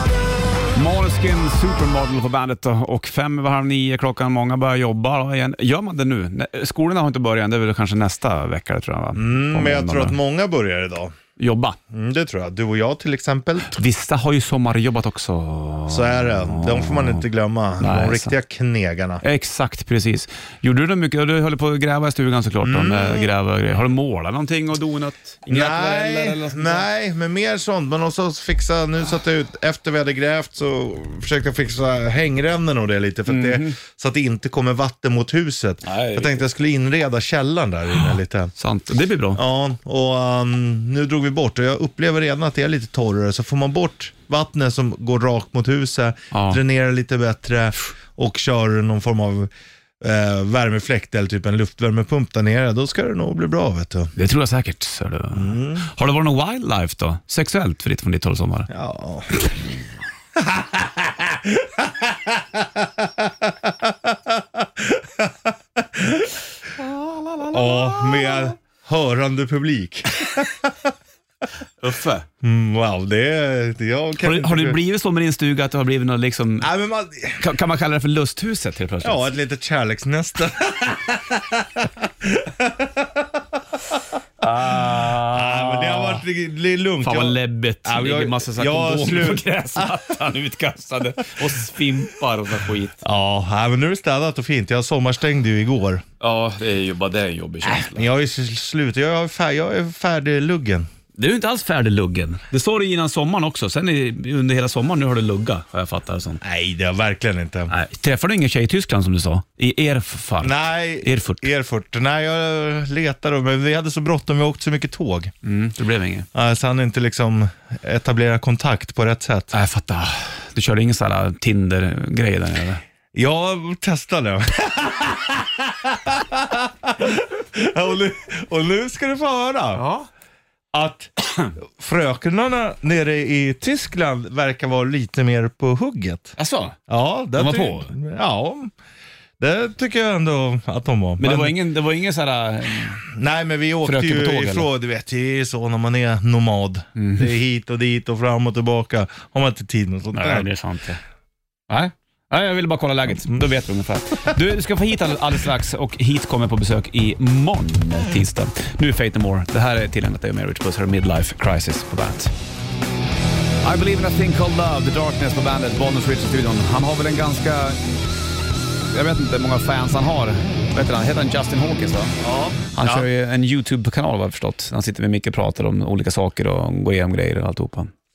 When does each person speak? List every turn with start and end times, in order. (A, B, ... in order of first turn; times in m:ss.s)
0:00.7-0:10.2 A
0:09.1-0:11.1 B
0:11.4-0:11.8 A
0:11.9-0:13.8 B
0:13.7-0:17.2 A
0:15.9-0:19.2 B
0:17.8-0:18.3 A
0:19.2-0:26.9 A
0:22.6-0:23.3 B
0:25.5-0:38.5 B
0:33.3-0:33.8 A
0:35.8-0:36.4 A
0:38.6-0:39.4 A
0:39.4-0:49.5 B
0:46.3-0:46.6 A
0:50.0-0:54.1 B
0:54.2-0:58.7 A
0:55.3-0:55.9 B
0:58.7-0:59.3 B
1:00.4-1:06.4 B
1:06.8-1:08.5 A
1:07.5-1:10.9 B
1:11.8-1:12.2 A
1:12.4-1:14.8 B
1:14.2-1:16.7 A
1:16.6-1:17.4 B
1:17.4-1:19.2 A
1:19.0-1:23.4 B
1:24.4-1:26.2 A
1:24.7-1:30.0 B
1:27.0-1:33.0 A
1:33.0-1:36.0 B
1:36.2-1:38.1 A
1:37.8-1:40.9 B
1:41.2-1:46.4 A
1:46.4-1:47.7 B
1:47.7-1:51.5 A
1:50.4-1:55.3 B
1:55.4-1:56.3 A
1:56.3-1:59.5 B
1:59.5-2:02.8 A
2:03.1-2:09.8 B
2:09.8-2:10.1 A
2:10.7-2:16.3 B
2:16.4-2:16.8 A
2:16.9-2:18.7 B
2:17.3-2:17.9 A
2:19.4-2:21.6 B
2:21.2-2:23.0 A
2:23.0-2:30.5 B
2:23.8-2:24.7 A
2:27.0-2:27.3 A
2:30.1-2:31.0 A
2:31.7-2:42.3 A
2:43.6-2:47.8 A
2:48.9-2:52.2 A
2:52.2-2:53.1 B
2:52.7-2:57.9 A